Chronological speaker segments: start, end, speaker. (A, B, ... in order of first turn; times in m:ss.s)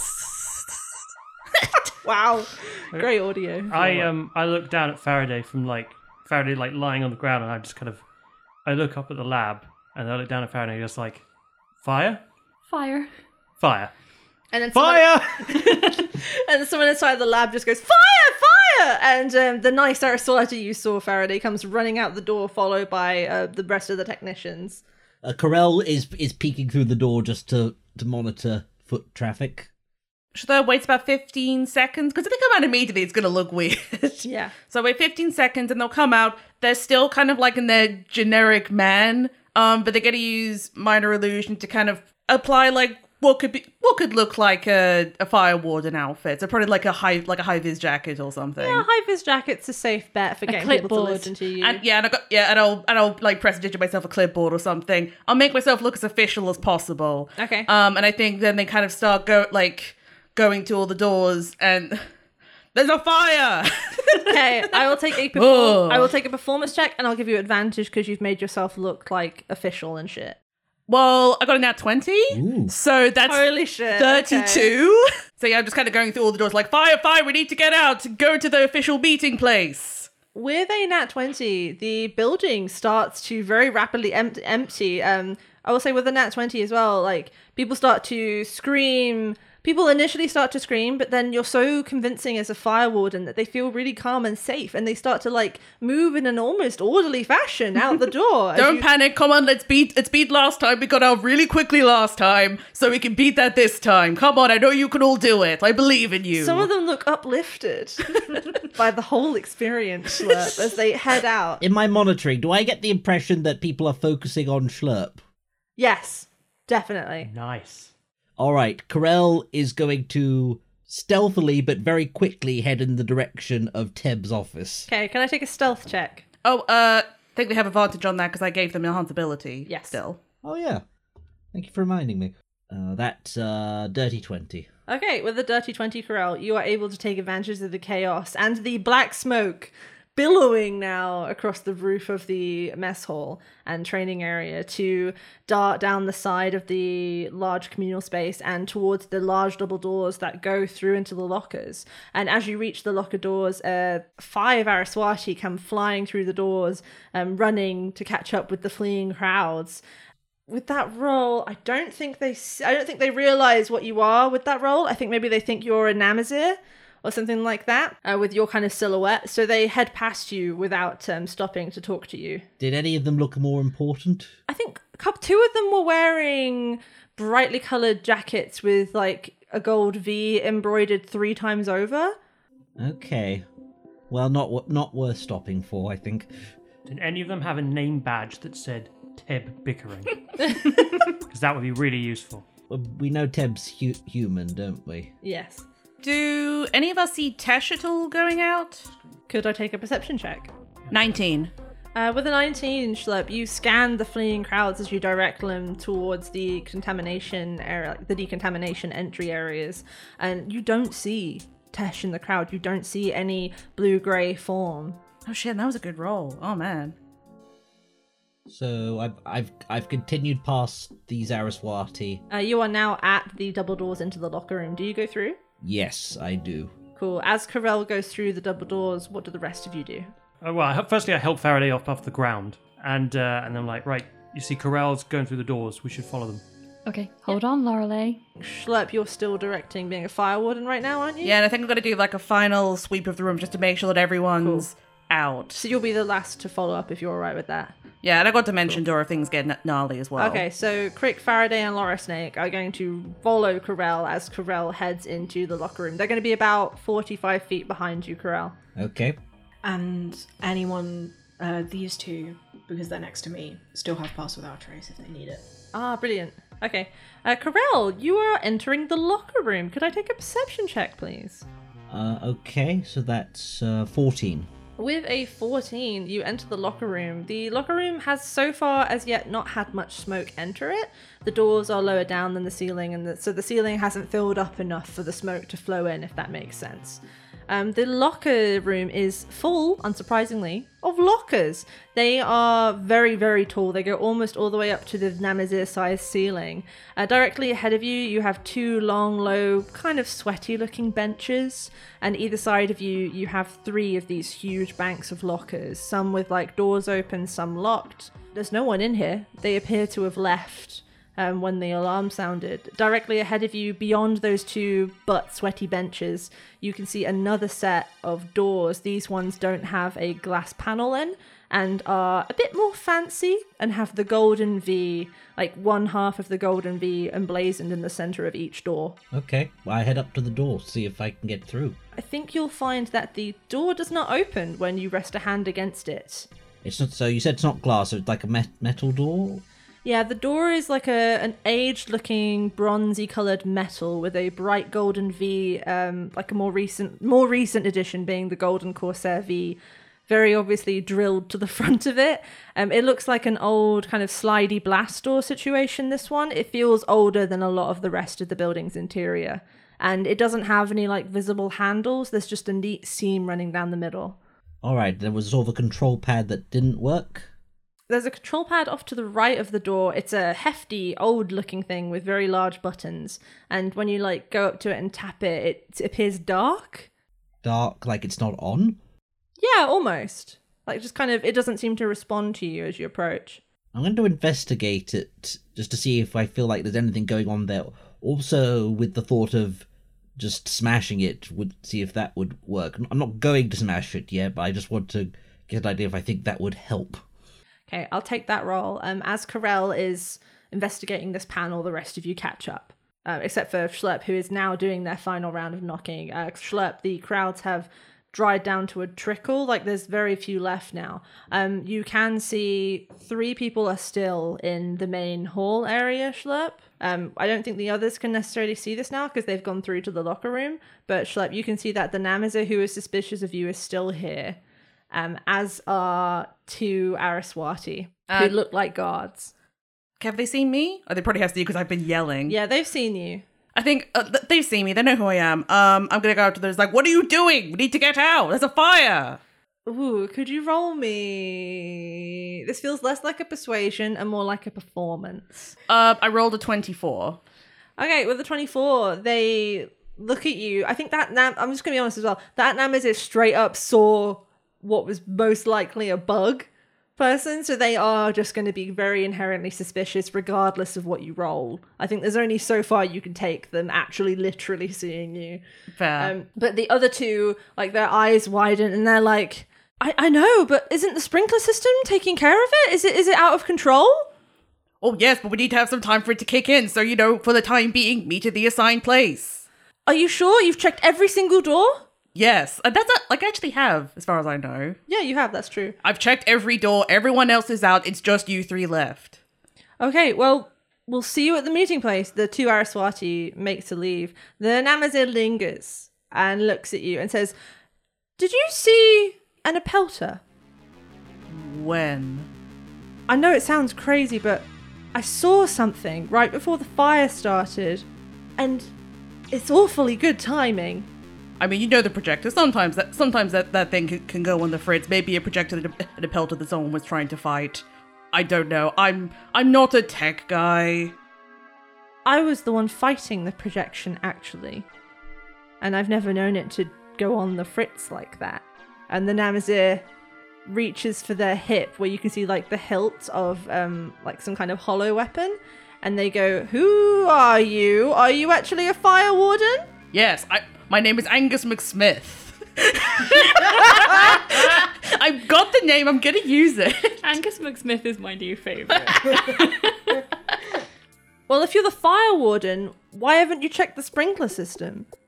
0:02.0-0:04.1 A
0:03.7-0:08.0 B
0:08.6-0:11.2 B
0:11.8-0:12.2 B
0:12.7-0:13.1 C
0:13.6-0:13.9 B
0:14.5-0:24.8 A
0:14.7-0:15.6 B
0:25.2-0:29.7 D
0:30.3-0:48.8 E
0:34.2-0:34.5 A
0:48.6-0:51.8 A
0:50.5-0:51.3 C
0:51.6-1:02.1 E
0:57.4-0:57.7 A
1:02.7-1:04.8 E
1:04.2-1:10.4 A
1:05.3-1:06.1 E
1:10.9-1:20.1 E
1:12.3-1:12.7 D
1:13.2-1:14.7 A
1:20.3-1:38.8 A
1:38.5-1:46.7 E
1:46.3-1:51.6 A
1:51.6-1:55.2 D
1:55.8-1:57.3 A
1:57.2-1:57.9 B
1:58.4-2:04.9 D
2:04.9-2:06.2 A
2:06.4-2:10.2 E
2:09.6-2:10.0 A
2:10.4-2:10.8 D
2:11.5-2:14.7 D
2:14.9-2:39.8 A
2:40.5-2:52.4 A
2:52.6-2:54.3 D
2:54.5-3:02.1 A
3:02.8-3:03.4 D
3:04.1-3:06.3 D
3:06.9-3:10.5 B
3:10.4-3:10.7 A
3:11.1-3:12.4 B
3:12.7-3:15.1 D
3:15.2-3:15.6 A
3:16.0-3:18.9 E
3:19.3-3:20.5 A
3:20.9-3:21.5 E
3:21.9-3:35.0 A
3:35.2-3:37.0 E
3:38.5-3:42.2 D
3:42.3-3:45.4 A
3:45.6-3:46.7 D
3:47.0-3:50.1 A
3:50.4-3:56.4 B
3:56.8-3:58.2 C
3:58.4-4:01.4 A
4:01.2-4:05.6 E
4:04.4-4:04.7 A
4:05.6-4:07.7 A
4:08.0-4:10.4 E
4:10.2-4:18.5 A
4:18.8-4:19.2 D
4:19.6-4:25.4 F
4:25.7-4:31.4 A
4:31.9-4:34.5 D
4:34.8-5:29.0 A
5:29.1-5:31.8 D
5:32.0-5:36.3 A
5:36.6-5:39.4 D
5:39.8-6:04.2 A
6:04.6-6:07.3 D
6:07.9-6:16.9 A
6:17.4-6:18.8 D
6:19.4-6:23.4 A
6:23.7-6:29.6 D
6:30.2-6:37.0 D
6:37.7-7:04.4 A
7:04.9-7:09.3 A
7:08.1-7:08.3 E
7:10.0-7:12.4 E
7:12.3-7:13.2 A
7:13.5-7:19.2 E
7:19.7-7:25.5 A
7:25.7-7:27.2 E
7:27.8-7:45.4 A
7:45.7-7:46.1 E
7:46.0-7:54.1 A
7:54.8-7:59.4 E
7:59.8-8:01.8 A
8:02.1-8:04.8 E
8:04.9-8:05.8 A
8:05.8-8:09.2 E
8:09.8-8:17.3 A
8:18.2-8:20.2 A
8:21.3-8:22.3 E
8:23.1-8:27.8 A
8:28.4-8:28.7 A
8:29.3-8:30.9 A
8:31.4-8:40.9 E
8:42.0-8:44.6 A
8:45.6-8:49.8 A
8:50.4-8:59.7 A
8:59.9-9:07.0 E
9:07.0-9:10.0 C
9:11.3-9:14.9 A